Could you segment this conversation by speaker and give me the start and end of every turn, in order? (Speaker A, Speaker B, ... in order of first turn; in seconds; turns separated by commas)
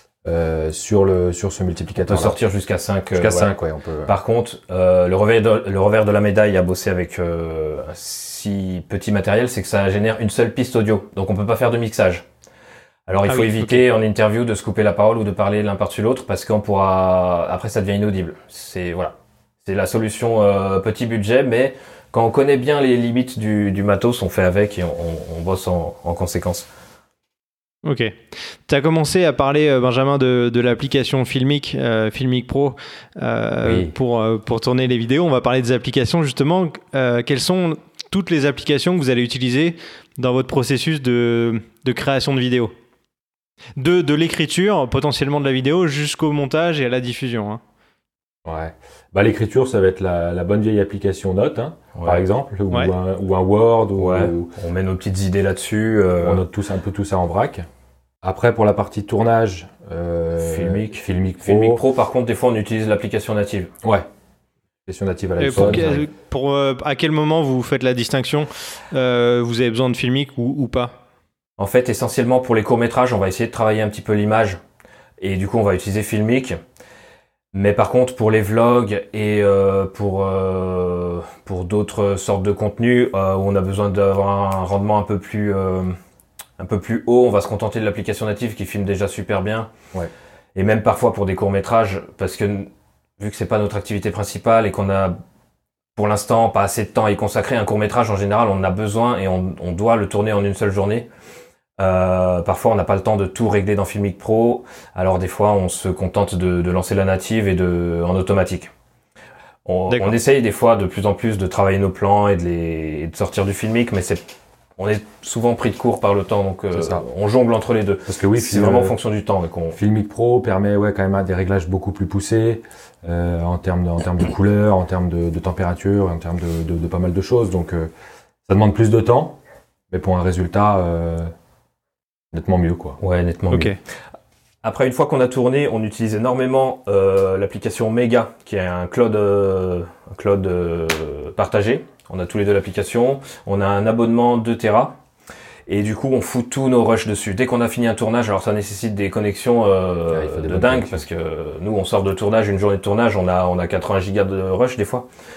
Speaker A: 0.2-2.4, Speaker B: 2.0-3.5, Speaker A: 3.2-4.1, Speaker B: 4.1-12.2, Speaker B: 13.1-26.7, Speaker C: 13.2-13.8, Speaker C: 27.8-42.7, Speaker C: 43.8-47.6, Speaker A: 48.4-54.5, Speaker B: 51.9-52.2, Speaker B: 54.0-56.4, Speaker A: 56.2-57.6, Speaker A: 58.2-61.8, Speaker B: 60.4-63.7, Speaker A: 64.9-66.0, Speaker C: 65.4-70.9, Speaker B: 65.6-65.9, Speaker B: 71.6-74.6, Speaker B: 75.2-76.6, Speaker B: 77.5-86.0, Speaker B: 86.6-89.7, Speaker B: 90.5-95.2, Speaker B: 96.0-101.1, Speaker B: 101.8-108.7, Speaker B: 109.7-114.2, Speaker C: 109.9-110.2, Speaker B: 114.8-119.8, Speaker A: 116.7-117.0, Speaker A: 118.1-119.0, Speaker A: 119.7-127.9, Speaker A: 128.5-129.4, Speaker A: 129.9-131.3, Speaker A: 132.3-133.0, Speaker B: 133.0-133.8, Speaker C: 133.5-133.8, Speaker B: 134.6-145.0, Speaker B: 145.7-155.1, Speaker A: 150.1-151.0